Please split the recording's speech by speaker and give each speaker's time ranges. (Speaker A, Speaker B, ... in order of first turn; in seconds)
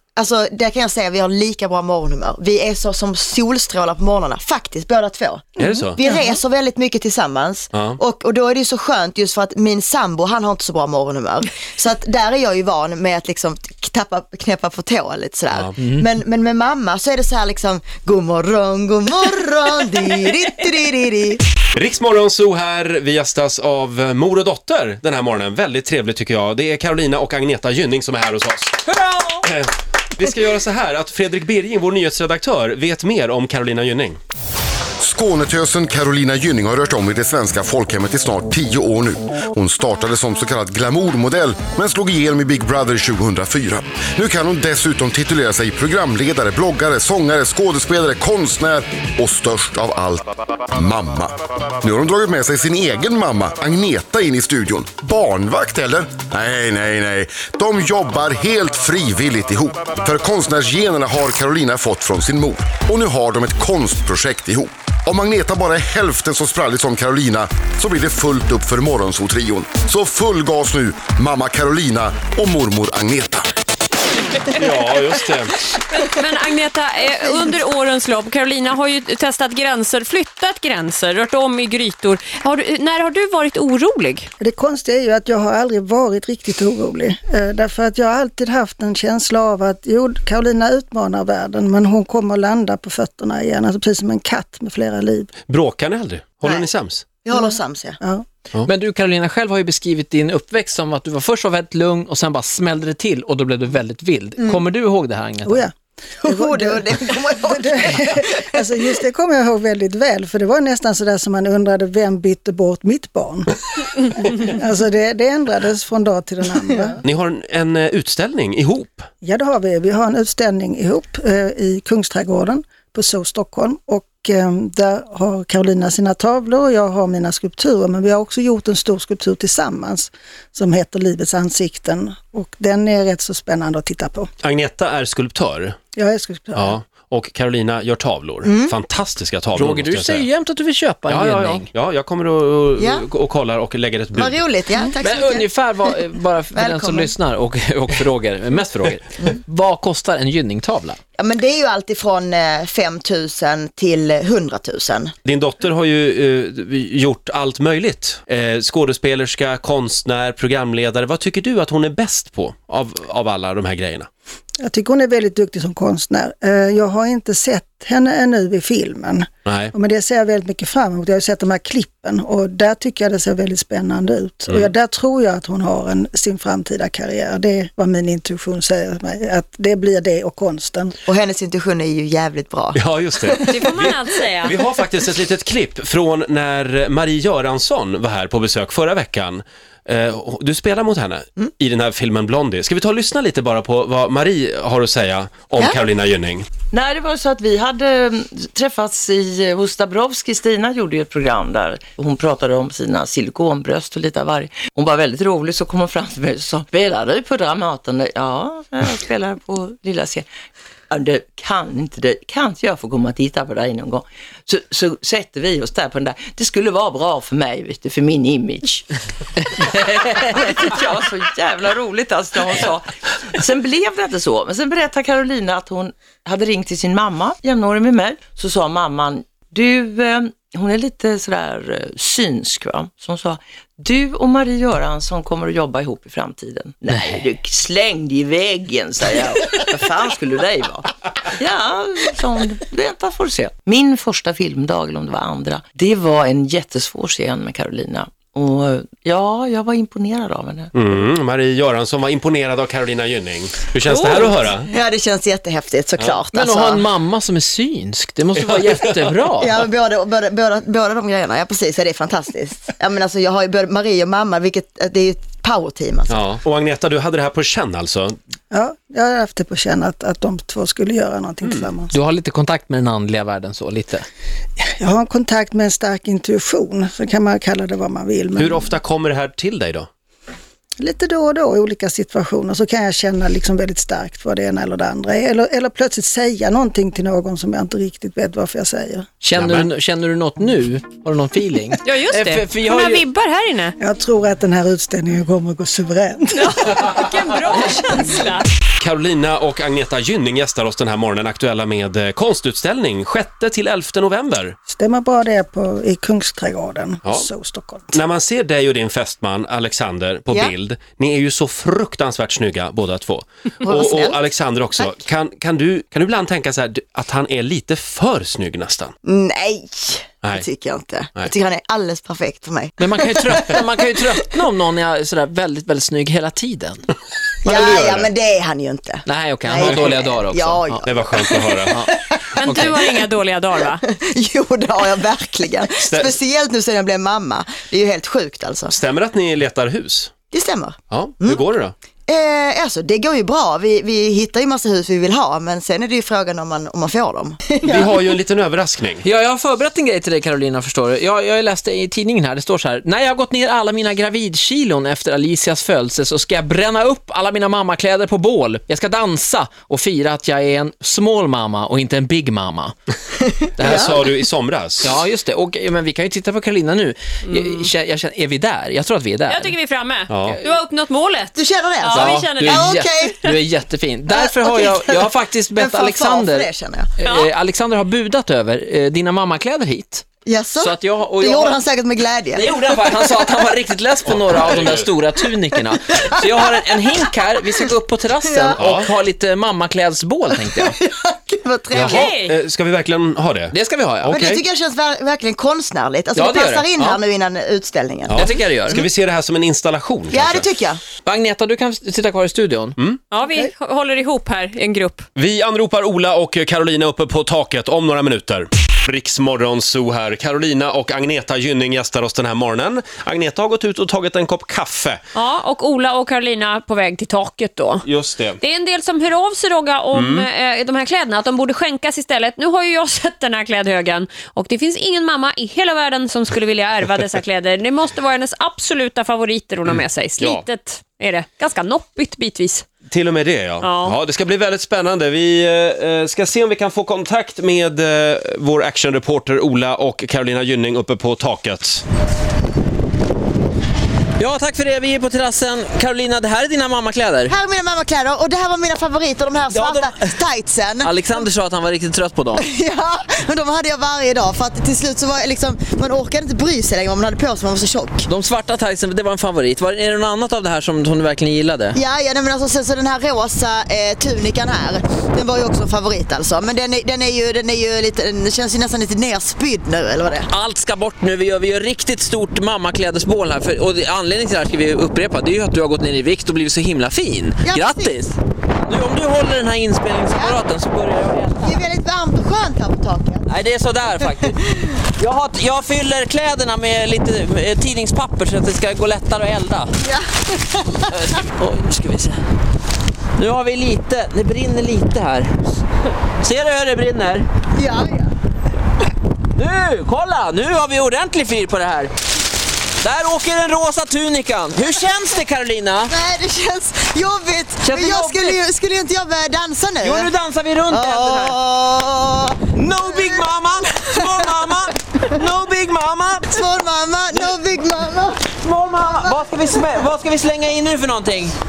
Speaker A: 0.1-21.4, 97.2-98.0, 106.2-108.1, 138.4-138.8, 142.8-143.1, 144.1-146.0, 146.5-147.1, 151.2-155.1, 181.1-183.6, 253.9-256.9, 259.4-266.2, 313.6-314.2, 319.0-324.2, 327.4-333.0, 333.6-338.7, 340.3-341.5, 342.1-348.0, 363.3-364.0, 371.4-373.4, 374.1-376.9, 380.2-382.6, 385.6-387.6, 388.2-388.7, 390.5-392.1, 394.1-398.8, 400.1-400.8, 447.3-451.1, 452.4-458.1, 461.7-470.3, 477.4-478.1, 480.1-480.4, 481.4-483.3, 484.2-484.8, 489.8-491.0, 497.6-498.1, 504.6-505.2, 505.9-510.1, 510.7-514.7, 516.3-518.3, 518.9-519.2
Speaker B: 5.6-6.0, 7.7-8.0, 15.5-15.8, 21.8-28.8, 29.4-34.2, 74.5-75.6, 95.5-97.0, 117.0-119.1, 134.4-135.8, 136.5-140.3, 141.1-144.4, 155.2-164.1, 169.5-169.7, 182.8-196.5, 250.7-254.7, 266.1-268.2, 271.4-271.7, 278.4-279.9, 289.4-289.7, 298.8-304.6, 307.0-307.3, 307.9-318.9, 327.5-328.1, 329.5-329.9, 330.8-331.8, 335.8-336.2, 338.7-340.1, 340.9-341.8, 347.6-349.0, 363.6-365.0, 370.1-370.4, 384.1-384.9, 388.6-388.9, 391.7-394.4, 398.1-400.5, 405.1-415.0, 417.9-418.4, 419.9-420.3, 429.7-430.4, 432.9-441.8
Speaker C: 28.9-29.4, 98.7-105.7, 139.6-141.7, 145.0-151.0, 236.9-237.2, 256.3-259.6, 271.9-274.1, 289.2-293.1, 322.8-326.8, 329.1-330.8, 332.4-332.8, 349.0-362.7, 364.8-369.6, 370.2-370.6, 371.9-381.6, 382.3-390.8, 393.5-394.1, 396.1-397.0, 398.1-398.9, 401.0-402.8, 444.2-447.4, 449.5-450.2, 450.8-452.4, 458.1-461.8, 470.3-478.2, 478.7-481.6, 483.3-484.4, 485.0-489.7, 490.9-492.2, 493.2-495.3, 496.2-497.3, 499.4-501.9, 502.8-505.9, 507.6-508.4, 509.8-511.4, 512.5-516.5, 518.4-521.4
Speaker D: 35.0-73.5
Speaker E: 75.9-84.3, 183.5-184.5, 291.9-293.8, 296.4-298.4, 332.4-333.8, 367.3-367.7, 369.3-372.7, 391.9-392.3, 403.1-405.1, 415.1-417.9, 418.4-432.7, 433.6-433.9
Speaker F: 84.4-95.3, 97.3-98.2, 105.4-117.0, 119.2-134.3, 135.9-136.8, 164.6-181.0, 268.5-271.9, 274.6-278.8, 280.8-289.1, 293.8-297.0, 304.7-308.0
Speaker G: 196.7-210.3, 210.9-218.9, 219.5-250.7